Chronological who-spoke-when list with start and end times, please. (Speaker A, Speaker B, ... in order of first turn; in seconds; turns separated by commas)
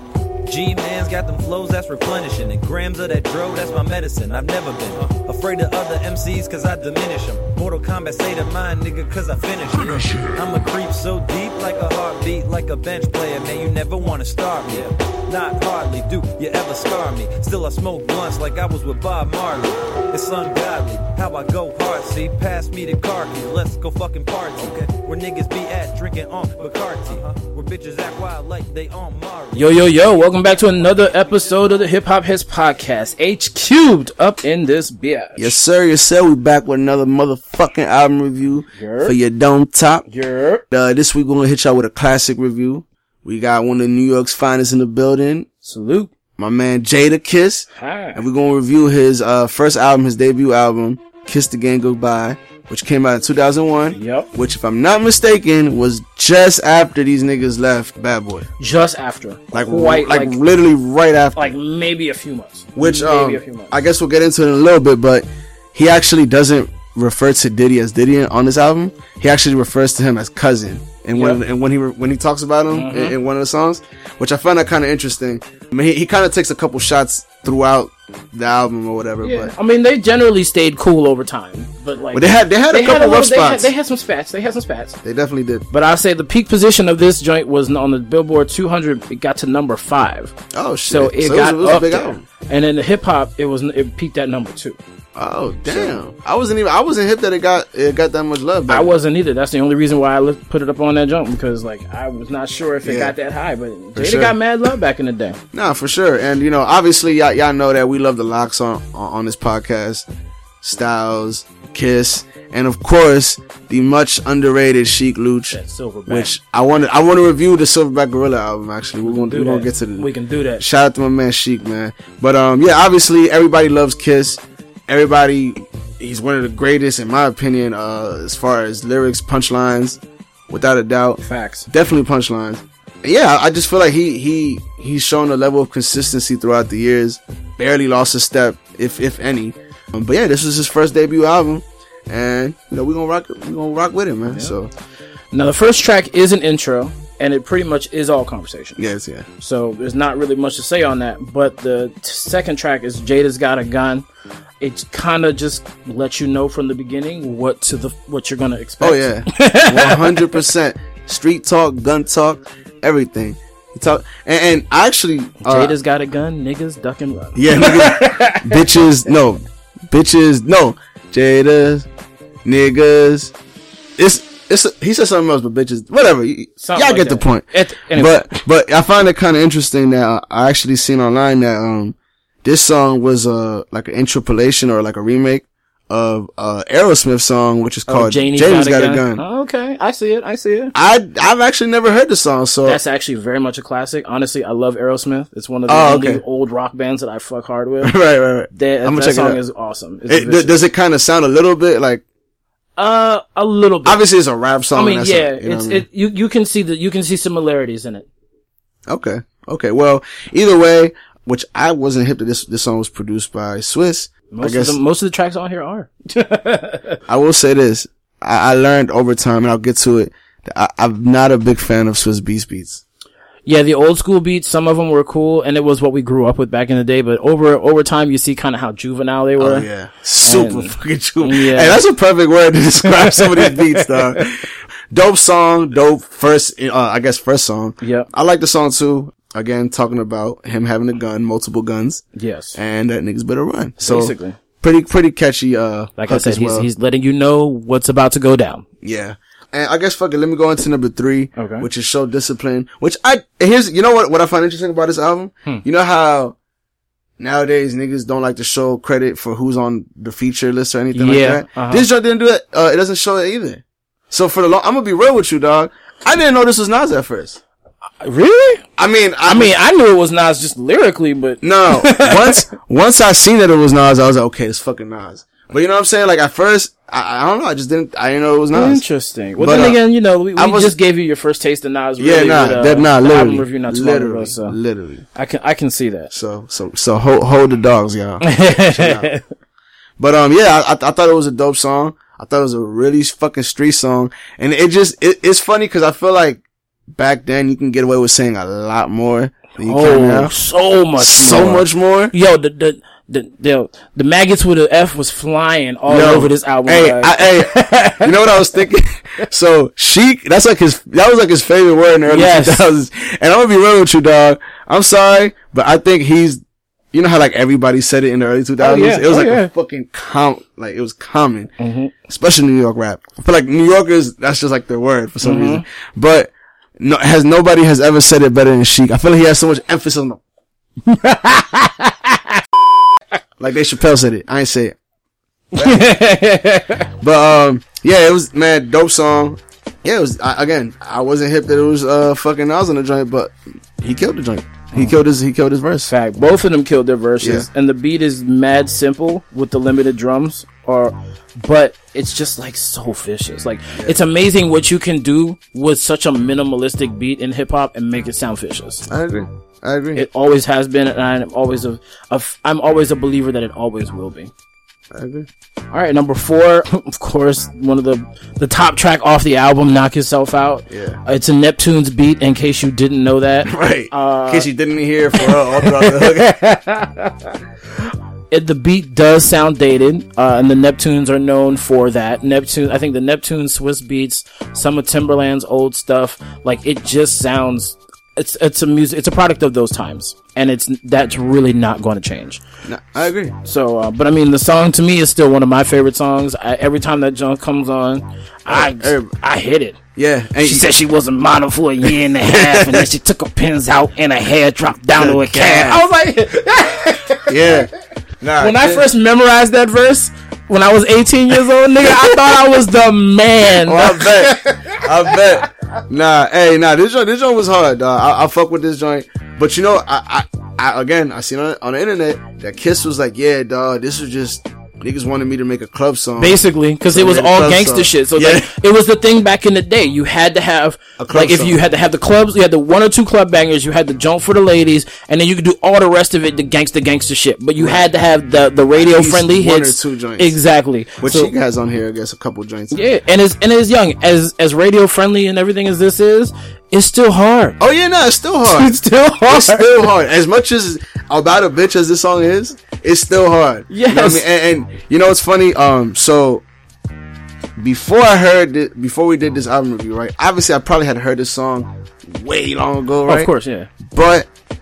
Speaker A: 0.5-29.8, Speaker B: 29.5-35.5, Speaker C: 35.4-40.0, Speaker B: 38.7-39.1, Speaker B: 40.1-40.6, Speaker C: 40.7-45.5, Speaker B: 45.6-46.1, Speaker C: 46.4-58.5, Speaker B: 47.8-48.2, Speaker B: 53.9-54.3, Speaker B: 58.6-60.4, Speaker C: 59.5-61.5, Speaker B: 61.4-63.7, Speaker C: 62.8-79.5, Speaker B: 71.1-71.4, Speaker B: 72.7-73.2, Speaker B: 79.2-85.0, Speaker C: 82.1-83.7, Speaker C: 85.0-85.6, Speaker B: 85.7-90.3, Speaker C: 90.5-92.2, Speaker B: 90.9-94.8, Speaker C: 95.1-98.9, Speaker B: 95.7-96.0, Speaker B: 98.7-105.4, Speaker C: 102.8-103.1, Speaker C: 103.9-104.3, Speaker C: 105.5-110.1, Speaker C: 110.6-120.1, Speaker B: 115.5-116.3, Speaker B: 119.0-120.6, Speaker C: 120.6-144.7, Speaker B: 131.2-131.7, Speaker B: 145.3-148.8, Speaker C: 148.8-149.2, Speaker B: 149.4-154.1, Speaker B: 154.6-160.4, Speaker C: 158.8-165.7, Speaker B: 165.4-168.7, Speaker C: 167.3-171.9, Speaker C: 172.4-173.3, Speaker C: 174.0-189.2, Speaker B: 176.6-178.4, Speaker B: 187.9-190.7, Speaker C: 190.7-192.8, Speaker B: 192.6-197.9, Speaker C: 195.7-196.2, Speaker C: 197.8-199.4, Speaker B: 198.5-200.6, Speaker C: 200.1-202.0, Speaker B: 202.8-204.0, Speaker C: 203.8-205.8, Speaker B: 204.7-208.1, Speaker C: 208.9-214.8, Speaker B: 214.3-217.0, Speaker C: 217.1-222.8, Speaker B: 223.4-229.7, Speaker C: 229.4-242.0, Speaker B: 230.2-231.8, Speaker B: 232.9-234.2, Speaker B: 237.8-238.1, Speaker B: 242.2-242.6, Speaker C: 242.5-246.7, Speaker B: 243.8-244.4, Speaker B: 246.0-248.6, Speaker C: 248.8-256.4, Speaker B: 251.3-251.7, Speaker C: 257.2-267.4, Speaker B: 260.9-261.9, Speaker B: 268.0-268.6, Speaker C: 268.8-269.5, Speaker B: 269.2-272.4, Speaker C: 271.4-278.8, Speaker B: 278.5-284.6, Speaker C: 279.4-279.8, Speaker C: 280.4-280.7, Speaker C: 282.0-285.0, Speaker B: 285.1-286.1, Speaker C: 286.1-289.1, Speaker B: 288.2-289.2, Speaker C: 290.0-300.3, Speaker B: 299.6-308.4, Speaker C: 301.0-302.1, Speaker C: 305.9-316.4, Speaker B: 312.1-312.6, Speaker C: 316.9-321.5, Speaker B: 318.6-319.5, Speaker B: 321.6-321.9, Speaker C: 322.1-330.2, Speaker B: 325.2-325.6, Speaker B: 330.9-332.4, Speaker C: 333.4-334.8, Speaker B: 335.5-336.9, Speaker C: 335.5-335.9, Speaker C: 337.0-345.9, Speaker B: 345.9-358.8, Speaker C: 347.2-347.5, Speaker C: 358.9-360.1, Speaker B: 359.9-364.3, Speaker C: 364.9-365.3, Speaker B: 365.7-374.5, Speaker C: 370.7-371.0, Speaker C: 373.4-376.3, Speaker B: 375.2-392.4, Speaker C: 392.6-393.3, Speaker B: 393.4-399.8, Speaker C: 398.5-399.1, Speaker C: 399.9-400.7, Speaker B: 400.4-407.6, Speaker C: 402.2-402.9, Speaker C: 405.0-405.9, Speaker C: 407.3-407.7, Speaker C: 408.2-408.8, Speaker B: 408.4-415.4, Speaker C: 411.8-412.3, Speaker C: 413.6-426.4, Speaker B: 426.2-441.3, Speaker C: 426.9-428.5, Speaker C: 431.0-431.6, Speaker C: 437.6-437.9, Speaker C: 438.8-440.4, Speaker C: 441.0-442.8, Speaker B: 442.7-447.6, Speaker C: 447.6-456.4, Speaker B: 448.4-449.9, Speaker B: 453.7-454.2, Speaker C: 457.6-463.3, Speaker B: 463.1-463.7, Speaker C: 463.8-464.3